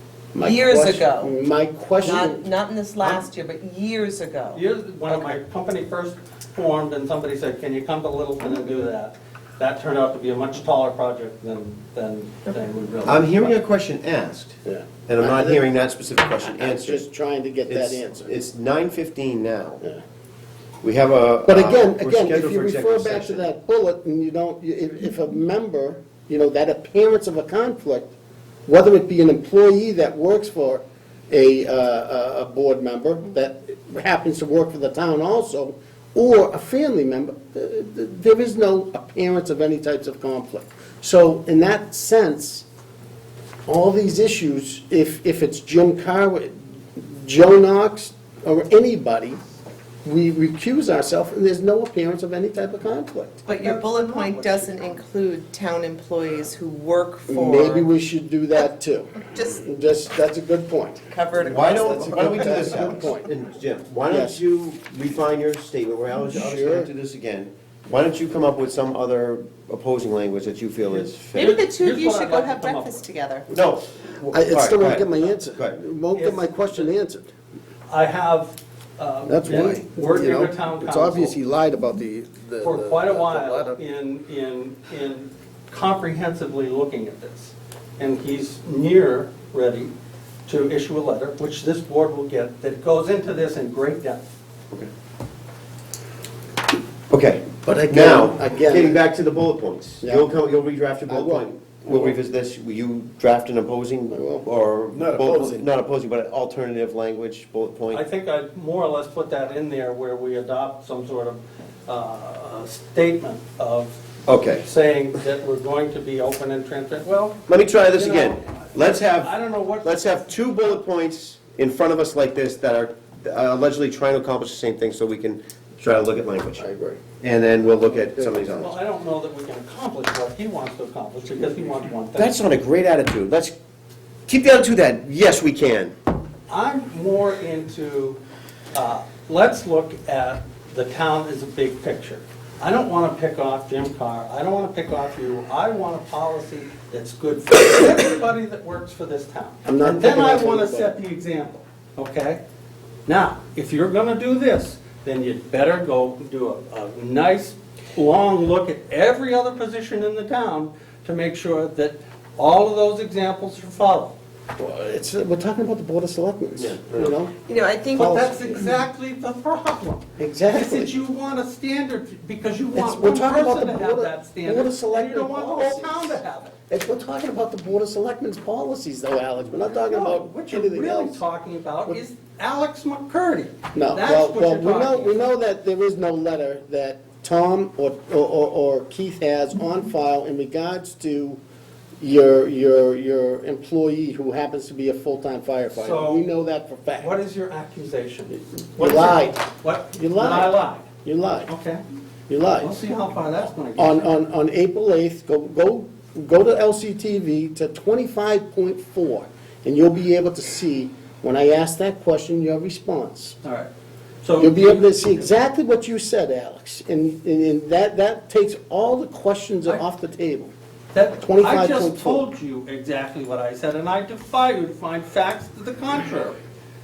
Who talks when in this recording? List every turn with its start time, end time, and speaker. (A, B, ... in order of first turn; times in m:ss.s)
0:00.3-0:02.4 A
0:00.4-0:01.3 B
0:02.0-0:05.4 B
0:04.5-0:13.6 C
0:13.0-0:17.0 D
0:14.7-0:15.6 A
0:16.4-0:18.3 A
0:17.7-0:19.8 D
0:20.8-0:23.5 D
0:21.5-0:28.1 A
0:28.7-0:42.7 A
0:43.7-0:49.4 A
0:50.0-0:53.5 A
0:53.5-0:57.9 B
0:53.5-0:54.9 C
0:57.3-1:03.3 A
1:01.1-1:03.0 B
1:01.5-1:11.6 D
1:04.1-1:04.4 A
1:06.3-1:06.9 A
1:10.9-1:13.0 C
1:11.3-1:13.5 B
1:13.5-1:15.8 D
1:14.3-1:17.3 A
1:16.2-1:16.9 C
1:17.9-1:21.4 C
1:19.3-1:23.8 A
1:22.6-1:29.9 C
1:30.5-1:34.3 C
1:37.1-1:48.0 D
1:37.6-1:39.0 A
1:40.0-1:40.3 A
1:41.1-1:42.2 A
1:44.1-1:45.6 A
1:47.9-1:54.0 C
1:54.3-1:54.7 D
1:54.6-2:00.2 C
1:57.5-2:06.6 D
2:06.6-2:07.0 A
2:07.2-2:08.7 D
2:07.6-2:08.7 A
2:08.6-2:12.4 C
2:12.2-2:13.5 D
2:14.3-2:16.0 D
2:16.5-2:18.2 C
2:18.7-2:32.4 C
2:29.6-2:31.0 A
2:33.1-2:44.2 C
2:44.6-2:47.4 A
2:46.6-2:47.1 D
2:47.5-2:48.5 B
2:48.0-2:48.9 A
2:48.0-2:56.6 C
2:50.2-2:51.0 A
2:52.8-3:01.2 A
2:59.7-3:05.2 C
3:03.8-3:11.4 A
3:12.0-3:17.2 A
3:15.7-3:16.2 C
3:17.0-3:20.9 C
3:18.8-3:21.5 A
3:21.5-3:21.8 C
3:22.3-3:22.7 A
3:22.6-3:24.1 C
3:23.8-3:33.4 A
3:33.4-3:33.7 C
3:34.2-3:34.8 C
3:34.4-3:40.5 A
3:40.9-3:46.4 C
3:41.2-3:42.2 A